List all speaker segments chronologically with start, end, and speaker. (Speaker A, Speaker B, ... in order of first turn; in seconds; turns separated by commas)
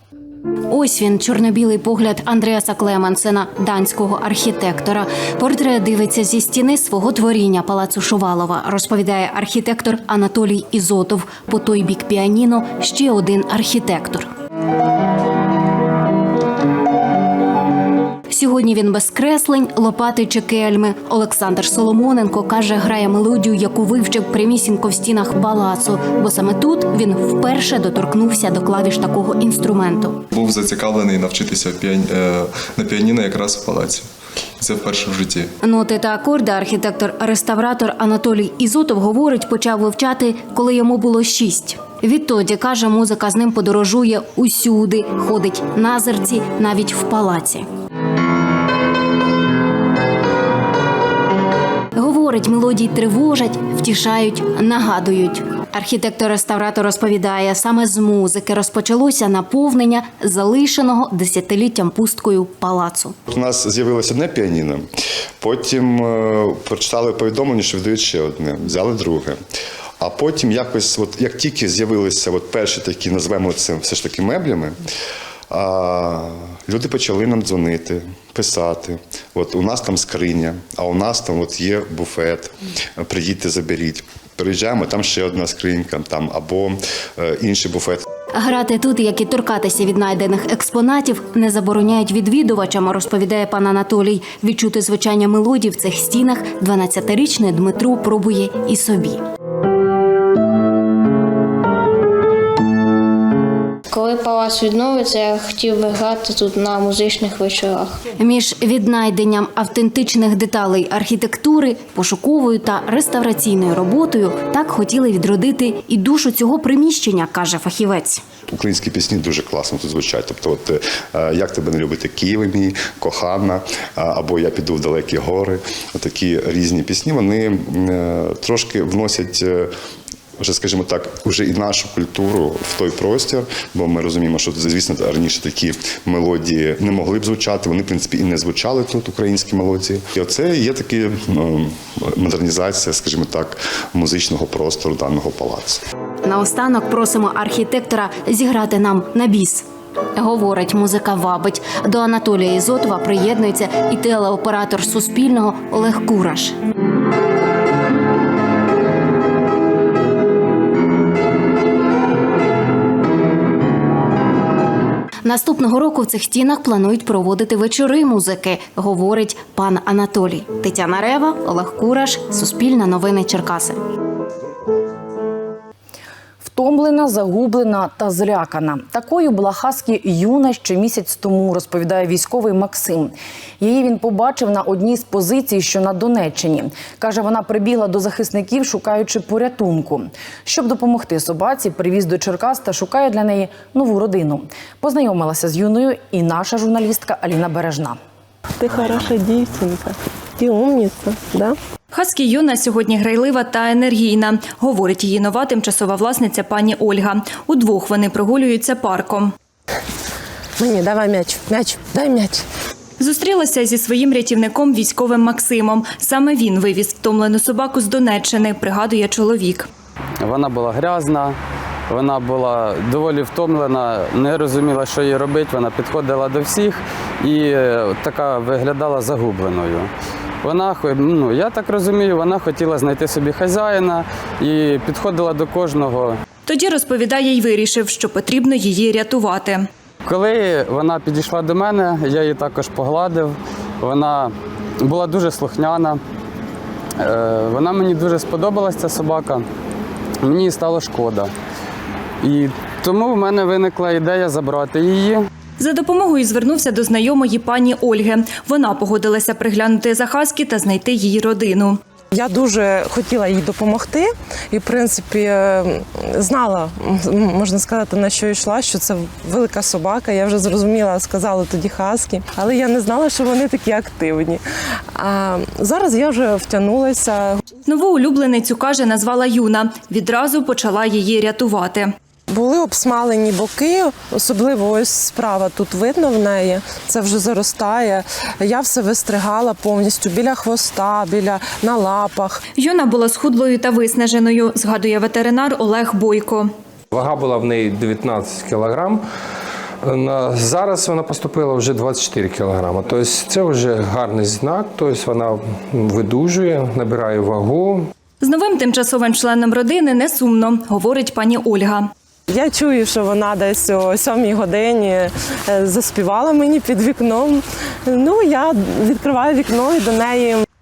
Speaker A: 0.7-14.3, Speaker A: 18.3-30.2, Speaker B: 30.3-34.0, Speaker B: 34.6-35.5, Speaker A: 35.6-47.6, Speaker A: 52.0-63.1, Speaker C: 63.3-64.8, Speaker C: 65.4-69.4, Speaker C: 70.0-74.8, Speaker C: 75.5-88.0, Speaker A: 88.3-99.2, Speaker D: 103.9-108.0, Speaker A: 108.2-118.2, Speaker C: 118.5-129.7, Speaker C: 130.4-145.8, Speaker A: 146.2-149.6, Speaker A: 150.2-156.6, Speaker A: 165.2-173.8, Speaker E: 176.4-198.0, Speaker F: 198.6-201.6, Speaker G: 201.9-209.3, Speaker F: 210.6-212.4, Speaker G: 213.0-219.7, Speaker H: 220.2-221.3, Speaker H: 221.9-229.9, Speaker H: 230.4-236.2, Speaker G: 236.5-239.7, Speaker H: 240.1-244.3, Speaker H: 244.8-246.0, Speaker H: 247.0-249.4, Speaker H: 250.2-251.3, Speaker H: 252.2-255.2, Speaker G: 255.6-261.8, Speaker F: 262.1-274.4, Speaker F: 274.9-277.4, Speaker G: 277.7-281.9, Speaker F: 282.3-292.4, Speaker G: 292.6-296.5, Speaker I: 296.9-299.0, Speaker I: 299.8-307.9, Speaker G: 308.2-311.9, Speaker F: 312.3-320.4